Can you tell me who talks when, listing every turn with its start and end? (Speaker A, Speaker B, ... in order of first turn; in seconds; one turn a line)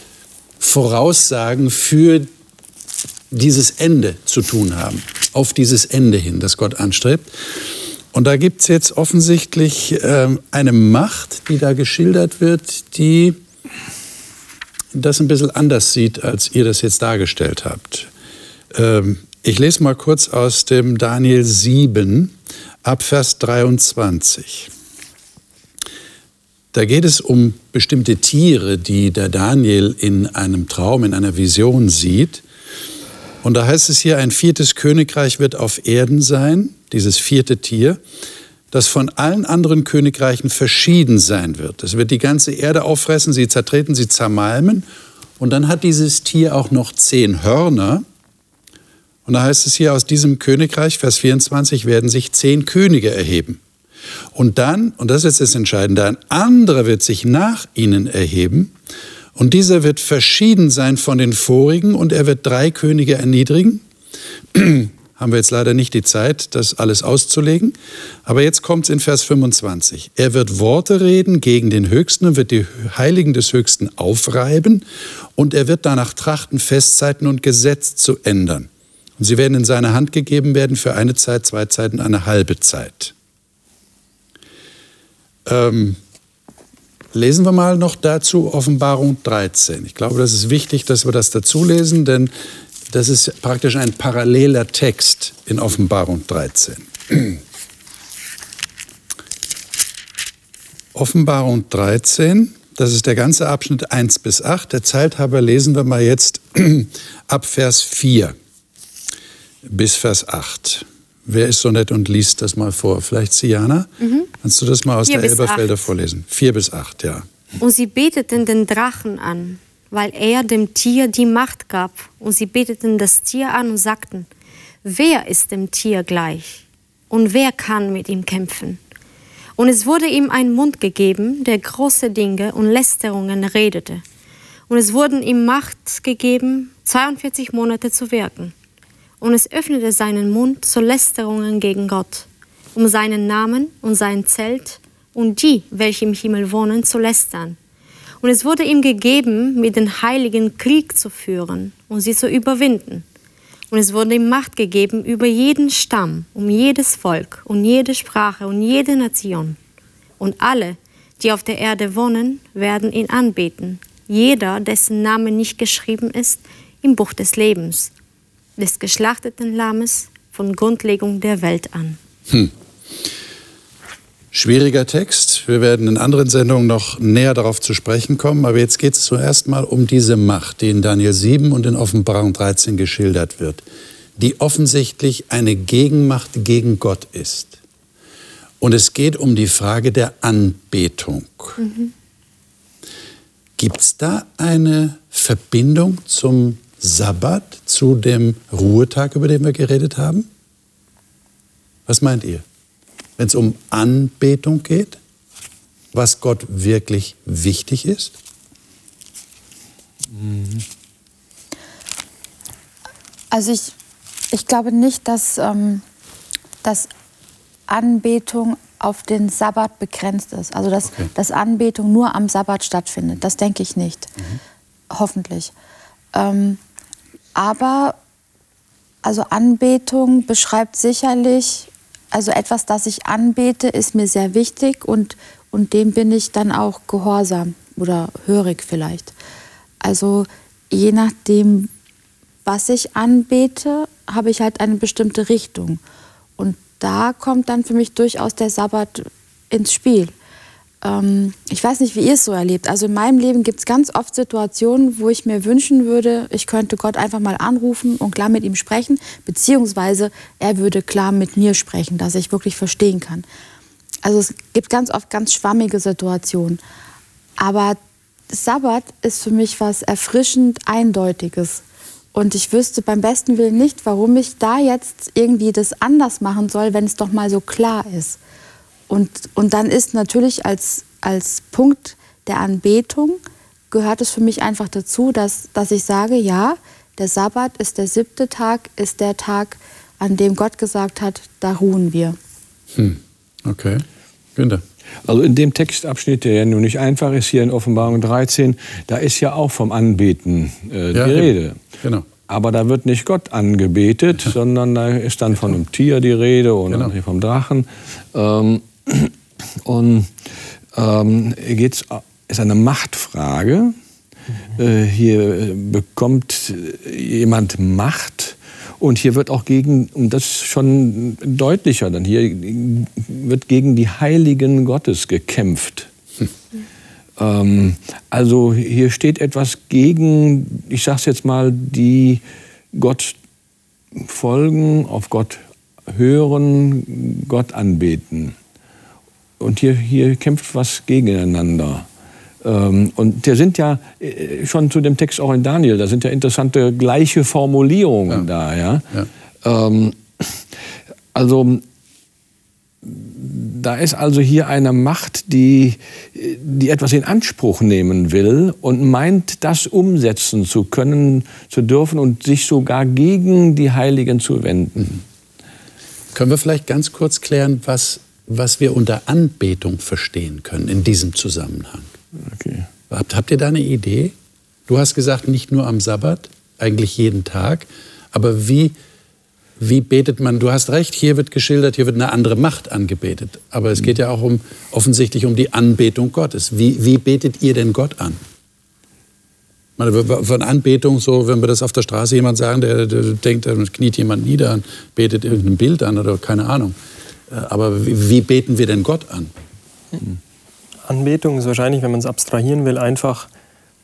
Speaker A: 0.6-2.3
Speaker A: 3.3-13.4
Speaker A: 14.9-18.1
Speaker A: 18.7-24.7
Speaker A: 26.7-32.4
Speaker A: 33.4-38.0
Speaker A: 38.7-44.8
Speaker A: 45.4-48.0
Speaker A: 49.2-53.6
Speaker A: 54.3-58.7
Speaker A: 59.3-63.8
Speaker A: 64.5-74.8
Speaker A: 75.3-83.1
Speaker A: 85.5-86.0
Speaker A: 87.1-92.3
Speaker A: 92.9-97.4
Speaker A: 100.9-108.3
Speaker A: 109.6-117.3
Speaker B: 114.0-114.3
Speaker B: 115.0-115.8
Speaker B: 117.6-124.3
Speaker B: 124.8-128.8
Speaker B: 129.6-134.0
Speaker B: 134.7-138.5
Speaker B: 139.2-147.6
Speaker B: 148.2-153.0
Speaker B: 153.7-159.6
Speaker B: 160.2-167.9
Speaker B: 168.6-172.0
Speaker A: 174.3-183.6
Speaker A: 184.2-187.6
Speaker A: 188.6-191.6
Speaker B: 191.6-191.9
Speaker A: 193.6-200.3
Speaker A: 201.9-202.4
Speaker A: 203.2-205.0
Speaker A: 205.9-208.2
Speaker C: 210.2-210.6
Speaker D: 213.3-213.7
Speaker D: 214.3-215.8
Speaker D: 216.6-216.9
Speaker D: 217.7-224.1
Speaker D: 224.9-225.5
Speaker D: 226.1-226.6
Speaker D: 227.3-228.0
Speaker D: 229.0-239.1
Speaker D: 239.8-241.7
Speaker D: 242.4-245.8
Speaker D: 246.4-250.1
Speaker D: 250.8-263.2
Speaker D: 264.0-266.6
Speaker D: 267.4-267.8
Speaker D: 268.3-271.6
Speaker D: 272.1-278.2
Speaker D: 278.9-283.2
Speaker D: 283.7-292.2
Speaker A: 292.7-293.8
Speaker A: 294.4-294.6
Speaker C: 295.0-301.6
Speaker A: 300.9-302.1
Speaker C: 302.3-309.1
Speaker C: 309.6-313.8
Speaker C: 314.5-325.9
Speaker C: 327.2-332.2
Speaker C: 332.7-333.1
Speaker C: 333.9-338.3
Speaker C: 339.4-341.9
Speaker C: 342.4-350.4
Speaker C: 351.1-351.6
Speaker C: 352.8-365.0
Speaker A: 366.1-371.9
Speaker C: 372.2-372.7
Speaker A: 372.9-374.1
Speaker A: 374.7-378.7
Speaker A: 379.6-388.2
Speaker A: 389.8-396.7
Speaker A: 397.3-399.3
Speaker E: 400.8-403.3